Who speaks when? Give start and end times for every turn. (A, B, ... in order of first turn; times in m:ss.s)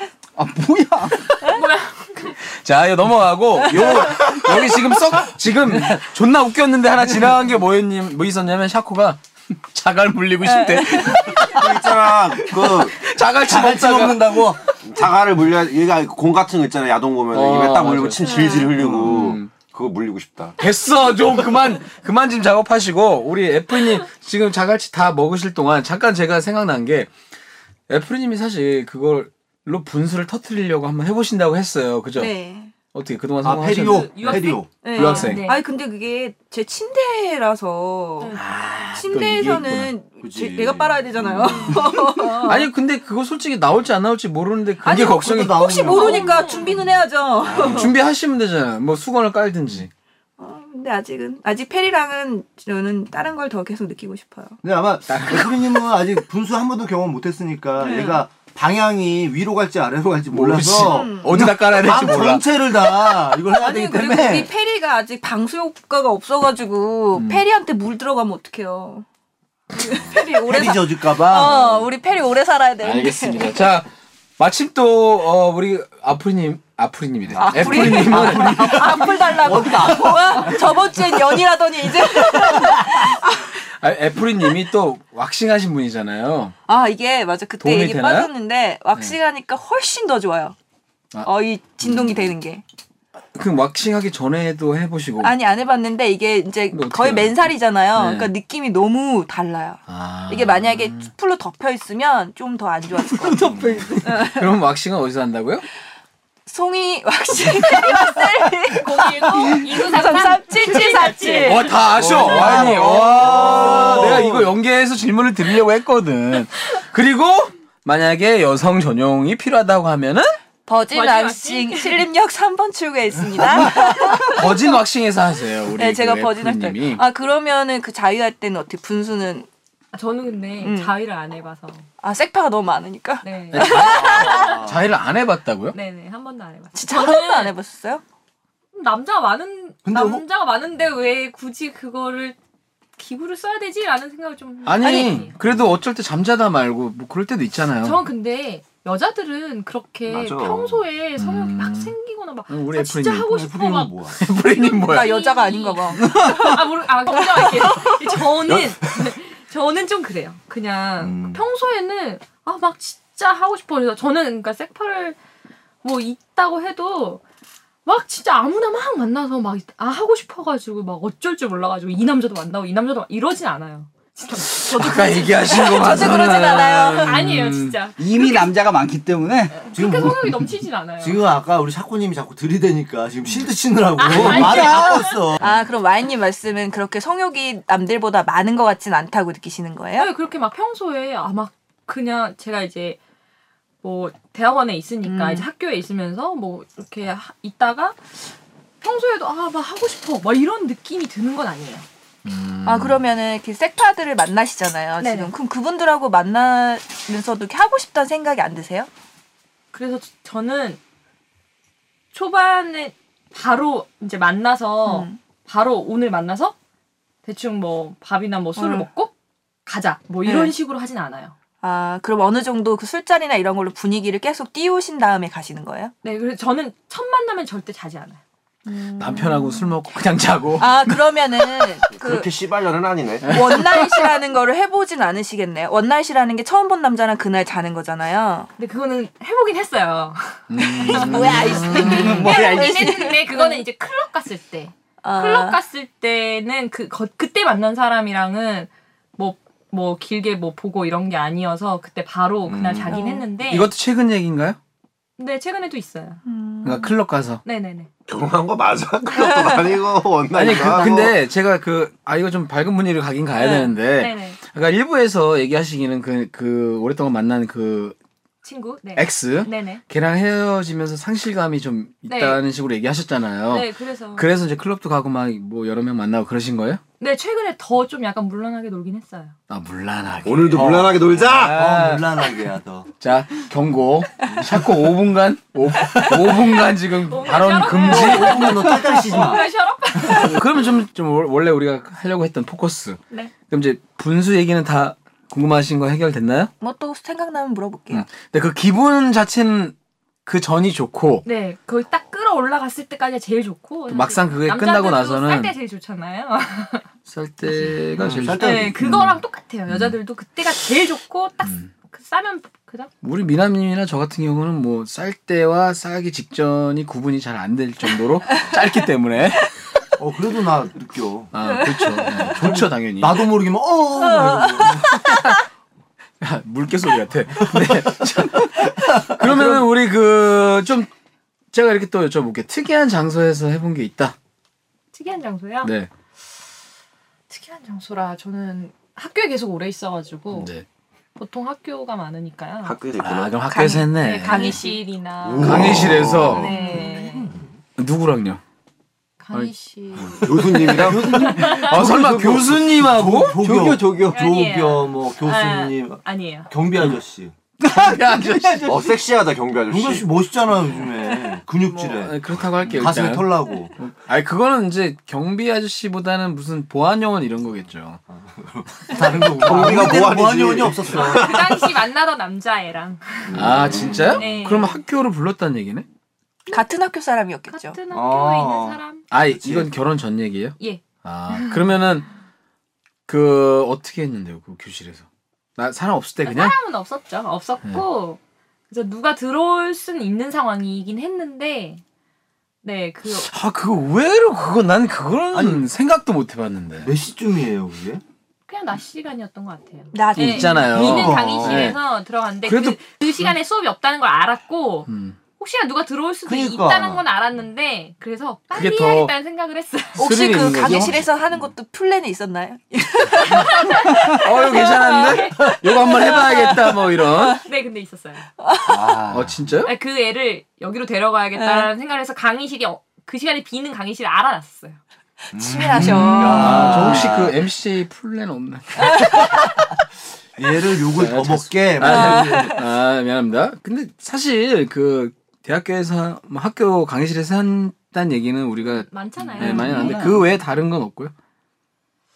0:00.4-0:01.2 A
0:01.4-0:02.4 B
0:02.5-0:11.8 C
0:10.4-0:11.5 D
0:11.5-0:13.0 E
0:12.4-0:14.5 C
0:13.4-0:14.7 F
0:14.8-0:20.6 E
0:17.3-0:19.5 C
0:18.2-0:18.8 D
0:18.9-0:19.2 F
0:20.6-0:27.1 C
0:27.9-0:32.3 C
0:32.2-0:32.7 D
0:32.9-0:35.5 C
0:33.4-0:34.8 F
0:33.8-0:35.7 B
0:34.8-0:38.4 D
0:38.3-0:39.9 C
0:38.9-0:42.7 D
0:40.2-0:42.3 F
0:42.4-0:46.2 C
0:44.8-0:47.9 D
0:45.2-0:46.7 F
0:45.9-0:46.7 B
0:47.4-0:47.9 F
0:47.6-0:49.9 C
0:50.4-0:54.6 D
0:54.6-1:04.5 F
0:55.1-0:55.6 C
0:57.8-0:58.2 D
1:00.3-1:02.4 C
1:00.8-1:01.3 D
1:03.0-1:09.1 D
1:07.1-1:07.4 C
1:09.8-1:13.6 D
1:09.9-1:11.9 F
1:12.8-1:19.3 C
1:17.3-1:20.9 F
1:17.4-1:23.6 D
1:22.4-1:23.1 C
1:23.7-1:26.6 C
1:26.7-1:30.6 D
1:27.6-1:28.3 C
1:31.2-1:32.6 D
1:31.8-1:32.3 C
1:33.4-1:35.3 C
1:35.2-1:44.6 D
1:36.7-1:37.4 C
1:37.9-1:38.3 C
1:39.9-1:41.1 C
1:43.3-1:45.6 C
1:46.5-1:53.5 D
1:48.8-1:52.7 B
1:51.4-2:00.4 C
1:51.9-1:54.5 F
1:53.4-1:53.8 B
1:53.5-1:54.1 E
2:00.7-2:04.7 D
2:00.9-2:02.1 B
2:03.4-2:03.9 F
2:04.2-2:07.0 C
2:05.8-2:09.5 D
2:09.9-2:11.9 B
2:10.6-2:10.9 D
2:12.0-2:14.7 D
2:13.2-2:14.7 B
2:13.5-2:15.8 C
2:14.4-2:14.8 F
2:15.7-2:17.5 B
2:16.8-2:18.0 D
2:18.7-2:22.4 B
2:19.8-2:20.2 F
2:23.0-2:25.4 B
2:24.6-2:28.0 C
2:24.8-2:25.3 D
2:27.8-2:45.2 B
2:30.1-2:30.8 E
2:31.2-2:31.9 C
2:32.5-2:33.4 C
2:33.3-2:34.2 F
2:34.2-2:35.1 C
2:34.8-2:38.3 D
2:41.0-2:41.4 F
2:45.8-2:47.2 B
2:47.8-2:58.5 B
2:54.4-2:57.8 C
2:55.5-2:57.2 D
2:58.0-2:59.6 A
2:59.7-3:01.2 B
2:59.7-3:00.4 F
3:01.0-3:05.5 F
3:04.0-3:05.3 B
3:04.1-3:04.6 C
3:04.4-3:10.1 D
3:10.0-3:13.0 B
3:13.8-3:21.9 B
3:15.0-3:15.5 D
3:22.2-3:23.0 C
3:22.6-3:28.9 D
3:25.0-3:25.3 B
3:29.7-3:30.8 B
3:32.1-3:36.6 B
3:34.9-3:35.2 D
3:37.2-3:39.1 B
3:38.6-3:38.9 D
3:39.7-3:41.4 B
3:40.2-3:40.5 D
3:41.6-3:45.9 D
3:46.0-3:48.2 B
3:48.7-3:49.8 D
3:49.0-3:51.0 C
3:50.6-3:52.3 D
3:51.9-3:53.4 E
3:53.2-3:54.1 C
3:53.3-3:58.5 D
3:58.6-4:13.7 B
4:00.5-4:02.3 C
4:00.6-4:03.6 D
4:05.0-4:05.6 D
4:12.6-4:12.9 F
4:12.9-4:13.3 D
4:13.5-4:14.6 C
4:15.2-4:16.2 B
4:16.2-4:17.0 D
4:16.6-4:17.4 C
4:17.4-4:17.9 B
4:18.1-4:21.1 E
4:19.2-4:19.6 D
4:20.3-4:28.0 C
4:20.8-4:21.1 F
4:23.4-4:23.7 D
4:24.0-4:24.4 B
4:28.4-4:29.8 B
4:29.0-4:36.8 C
4:32.1-4:32.4 B
4:33.5-4:34.3 B
4:37.0-4:39.3 B
4:39.5-4:42.1 C
4:40.2-4:41.6 E
4:40.5-4:40.9 F
4:41.4-4:42.9 F
4:43.0-4:48.5 C
4:44.3-4:44.6 F
4:47.1-4:50.4 B
4:47.8-4:49.5 F
4:50.1-4:56.5 C
4:56.6-4:58.1 D
4:57.9-4:59.8 C
5:00.3-5:01.3 C
5:01.2-5:06.9 B
5:03.9-5:05.5 C
5:07.1-5:10.0 C
5:08.0-5:08.9 F
5:08.4-5:12.9 B
5:11.4-5:11.7 C
5:13.0-5:19.5 C
5:20.0-5:21.3 F
5:21.3-5:23.3 C
5:21.5-5:22.3 D
5:22.3-5:25.0 F
5:24.0-5:25.3 D
5:26.2-5:30.9 C
5:27.4-5:28.0 F
5:28.6-5:29.7 F
5:31.5-5:34.2 C
5:34.9-5:35.7 B
5:35.6-5:35.9 C
5:37.3-5:40.5 B
5:40.3-5:40.6 C
5:41.2-5:42.8 B
5:42.6-5:43.5 E
5:43.0-5:44.6 C
5:43.5-5:44.8 D
5:44.0-5:47.3 B
5:45.2-5:46.5 E
5:45.4-5:46.5 C
5:45.6-5:47.4 F
5:46.4-5:47.3 D
5:47.8-5:48.4 C
5:49.2-5:51.8 B
5:50.0-5:51.5 E
5:50.6-5:57.3 F
5:51.6-5:53.4 C
5:53.4-5:53.9 A
5:54.1-5:56.5 B
5:57.6-5:58.9 A
5:57.6-5:58.8 C
5:58.6-6:00.1 E
5:59.7-6:03.8 F
6:01.6-6:08.0 C
6:08.1-6:11.6 F
6:09.4-6:11.4 E
6:10.9-6:13.4 B
6:13.3-6:14.5 F
6:13.3-6:15.9 C
6:13.4-6:14.2 E
6:14.2-6:14.8 B
6:16.5-6:17.8 D
6:17.5-6:19.0 B
6:17.9-6:19.7 F
6:19.1-6:22.1 C
6:20.6-6:21.6 B
6:23.1-6:25.0 C
6:25.6-6:26.6 C
6:26.2-6:28.2 B
6:28.7-6:31.8 B
6:32.6-6:33.3 B
6:33.2-6:36.9 C
6:35.3-6:35.7 F
6:36.8-6:38.0 F
6:38.5-6:50.0 B
6:39.9-6:40.8 D
6:40.2-6:41.8 C
6:40.7-6:41.8 F
6:42.4-6:43.3 C
6:44.9-6:45.2 C
6:46.3-6:47.0 F
6:48.5-6:49.1 C
6:50.0-6:51.0 C
6:50.0-6:57.4 D
6:50.7-6:51.0 F
6:53.3-6:56.3 B
6:54.1-6:57.4 C
6:57.4-6:58.3 B
6:58.4-6:59.0 D
6:58.7-6:59.4 F
6:59.1-6:59.7 C
6:59.6-7:04.8 B
7:01.4-7:01.7 D
7:05.3-7:07.1 D
7:05.3-7:07.4 F
7:05.8-7:09.4 C
7:08.8-7:09.5 D
7:10.4-7:12.6 F
7:10.9-7:21.1 C
7:11.8-7:12.6 D
7:18.6-7:20.2 B
7:19.4-7:20.2 A